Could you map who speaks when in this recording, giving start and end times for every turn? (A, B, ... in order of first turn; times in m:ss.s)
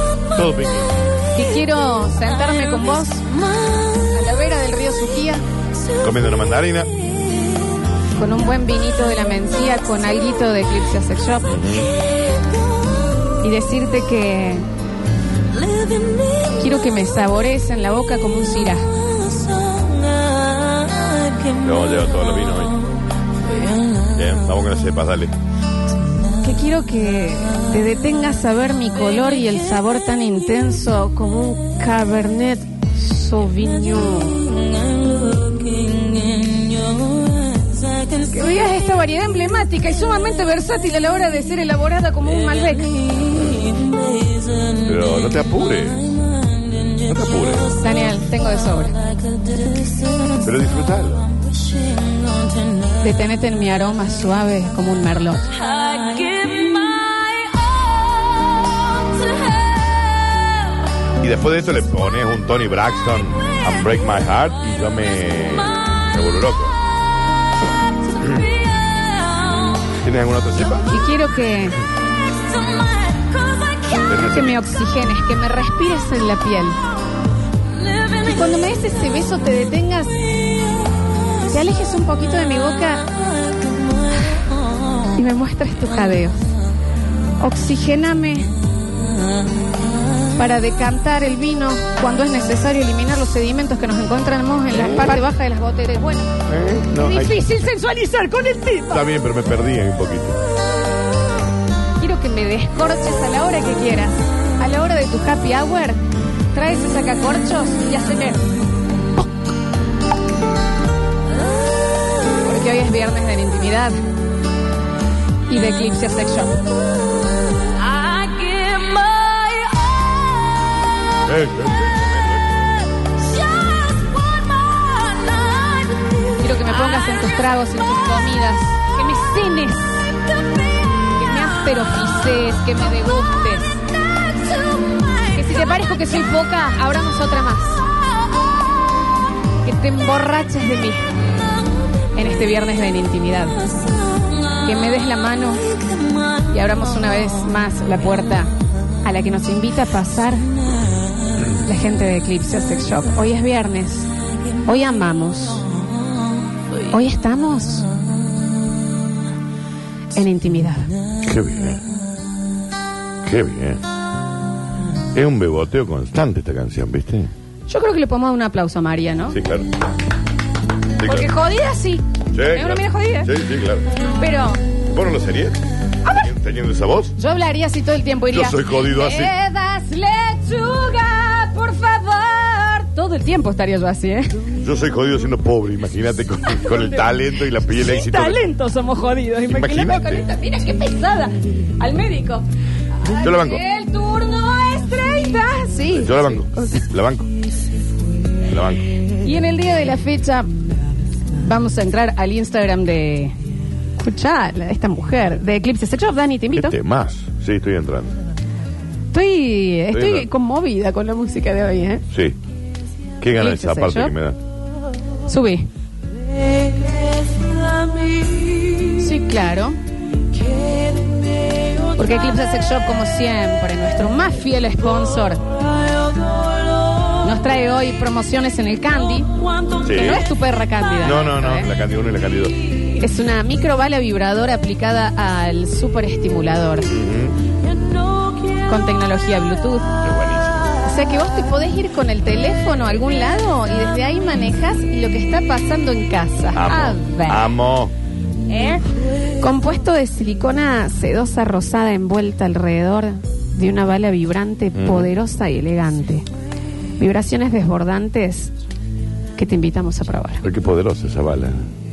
0:00.3-0:01.0 A
0:01.3-0:05.4 B
0:06.0-0:07.0 A
0:08.2-0:11.6 B
0:11.5-0:11.9 A
0:13.4-0:14.7 B
0:16.0-0:16.2 C
0:16.5-0:18.9 B
0:20.7-0:21.2 C
0:21.5-0:22.8 A
0:24.1-0:25.3 A
0:26.4-0:34.7 B
0:35.3-0:36.8 C
0:38.3-0:43.2 B
0:44.8-0:46.1 A
0:47.0-0:47.7 A
0:47.7-0:49.0 B
0:50.4-0:51.3 A
0:53.0-0:55.5 B
0:55.8-0:57.7 C
1:01.2-1:06.8 A
1:08.2-1:08.5 A
1:09.0-1:09.5 C
1:09.9-1:11.0 A
1:10.9-1:11.8 B
1:12.7-1:13.4 C
1:14.0-1:16.8 B
1:14.0-1:14.6 A
1:18.1-1:20.2 B
1:21.4-1:23.1 B
1:25.1-1:26.4 B
1:27.4-1:28.5 B
1:30.3-1:36.3 B
1:34.7-1:35.2 A
1:36.5-1:37.6 A
1:37.0-1:39.0 B
1:38.9-1:40.4 A
1:42.0-1:46.0 B
1:46.5-1:48.5 B
1:52.4-1:54.0 B
1:55.5-1:56.6 B
1:58.0-1:59.2 C
2:01.2-2:02.7 A
2:04.9-2:05.4 C
2:06.3-2:10.1 B
2:11.0-2:13.8 B
2:15.3-2:17.8 B
2:19.6-2:21.1 B
2:22.2-2:23.6 B
2:24.6-2:25.7 B
2:26.4-2:28.5 B
2:29.0-2:30.4 B
2:31.6-2:34.1 B
2:34.6-2:35.7 B
2:36.9-2:37.9 B
2:40.1-2:40.9 B
2:41.2-2:41.8 A
2:43.2-2:43.8 A
2:45.1-2:47.3 A
2:47.7-2:49.4 B
2:49.3-2:49.7 A
2:51.0-2:51.3 A
2:51.0-2:53.3 B
2:52.3-2:53.9 A
2:54.2-2:54.6 B
2:54.9-2:57.1 A
2:56.0-2:56.3 B
2:57.2-3:04.5 B
2:58.3-2:59.3 A
3:04.6-3:08.4 A
3:06.6-3:12.4 B
3:09.5-3:10.2 A
3:13.0-3:16.3 B
3:13.1-3:13.6 A
3:15.9-3:17.3 A
3:18.4-3:18.9 A
3:19.2-3:20.5 B
3:21.4-3:23.3 B
3:24.0-3:26.7 B
3:26.5-3:28.1 A
3:29.1-3:32.0 B
3:29.9-3:30.3 A
3:32.1-3:32.4 A
3:33.2-3:34.4 A
3:33.4-3:34.1 B
3:35.3-3:35.6 B
3:38.8-3:39.8 B
3:41.9-3:45.4 B
3:47.2-3:51.7 B
3:49.8-3:50.2 A
3:51.0-3:52.6 A
3:52.8-3:56.9 B
3:56.9-3:57.4 A
3:58.4-3:59.9 B
4:00.0-4:00.7 A
4:00.8-4:07.5 B
4:06.5-4:07.9 A
4:08.4-4:08.9 B
4:09.4-4:16.2 B
4:14.7-4:15.1 A
4:17.0-4:18.5 B
4:19.4-4:20.4 B
4:20.4-4:21.6 A